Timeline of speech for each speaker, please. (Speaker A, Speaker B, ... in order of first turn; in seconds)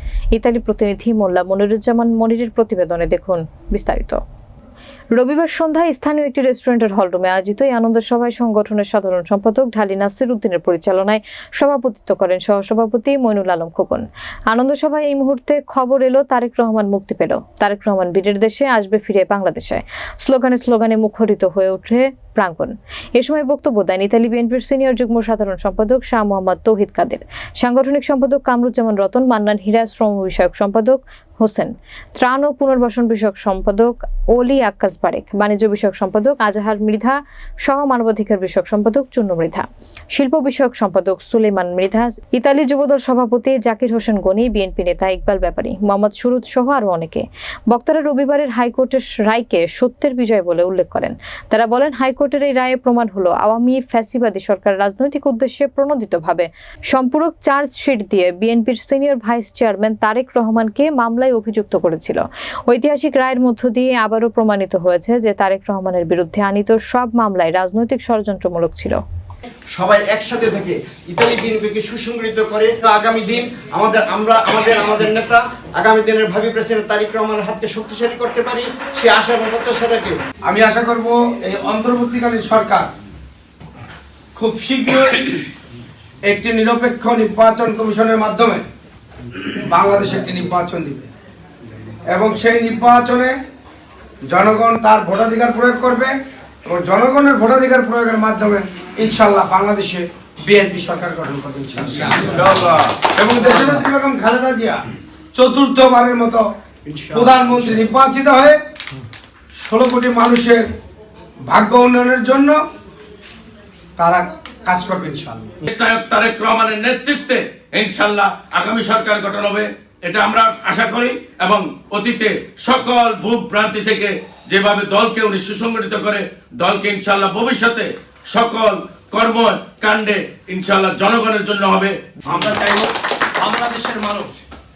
Speaker A: 0.3-4.2, 5.1-69.0
Speaker B: 69.7-80.2, 106.9-107.4
Speaker C: 80.5-82.9, 84.3-85.4, 86.3-88.6, 89.5-91.1, 92.1-93.3, 94.3-96.1, 96.7-104.8, 105.3-106.4, 107.1-108.6, 109.6-110.7, 111.5-112.6, 114.0-115.5
Speaker D: 115.6-131.9
Speaker E: 132.3-134.3